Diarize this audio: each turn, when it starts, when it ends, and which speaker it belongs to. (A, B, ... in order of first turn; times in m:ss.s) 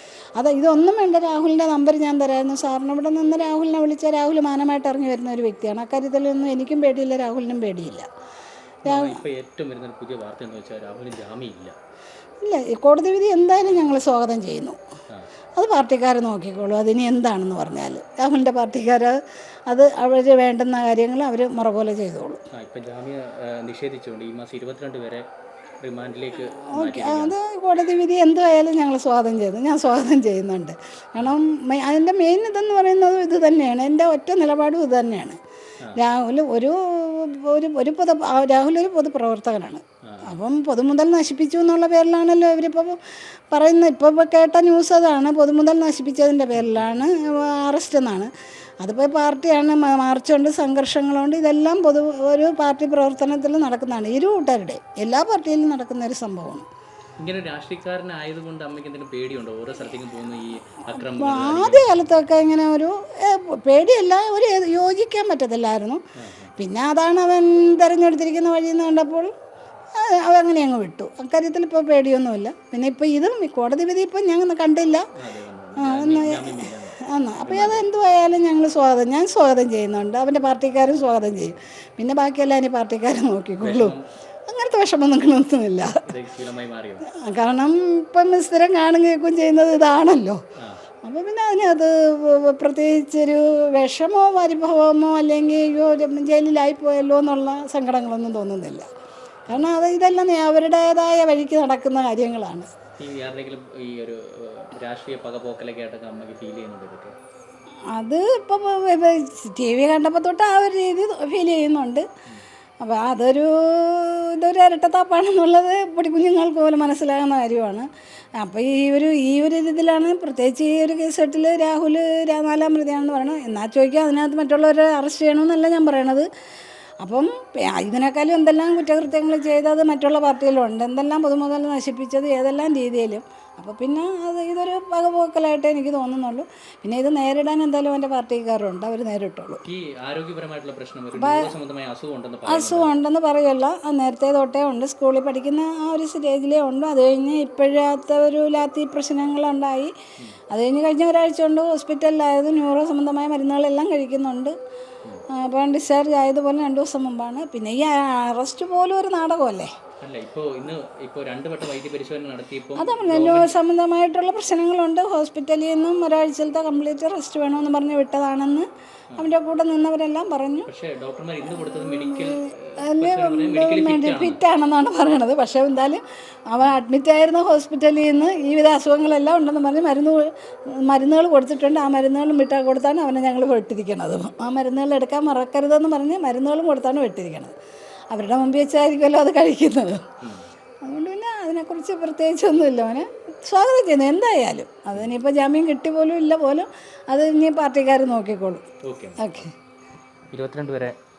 0:00.4-0:08.1 A
0:08.8-0:11.7 B
0:08.8-0:09.2 A
0:12.4-0:14.8 A
0:15.6-0:22.4 A
0:22.5-0:25.3 B
0:25.8-0:27.4 B
0:26.5-0:35.4 A
0:35.9-0:48.3 A
0:40.0-0:40.3 B
0:46.5-0:46.9 B
0:48.8-0:56.6 A
0:57.2-1:02.1 B
1:00.9-1:06.0 A
1:06.1-1:06.5 B
1:06.6-1:09.3 A
1:09.9-1:15.1 A
1:15.2-1:17.9 B
1:15.8-1:24.0 A
1:23.6-1:24.1 B
1:24.5-1:26.1 A
1:26.0-1:27.0 B
1:27.0-1:30.4 A
1:30.6-1:30.8 B
1:31.0-1:38.8 A
1:39.5-1:42.7 A
1:43.0-1:47.1 B
1:47.9-1:52.1 A
1:52.8-2:06.3 A
2:07.0-2:19.6 A
2:19.6-2:22.9 B
2:21.1-2:21.5 A
2:22.4-2:29.9 A
2:30.5-2:34.5 A
2:35.3-2:39.7 A
2:40.0-2:43.6 B
2:42.8-2:50.7 A
2:50.7-2:54.4 B
2:51.5-3:07.5 A
3:08.1-3:10.1 A
3:10.8-3:18.7 A
3:18.8-3:19.5 B
3:19.2-3:19.5 A
3:20.3-3:21.0 B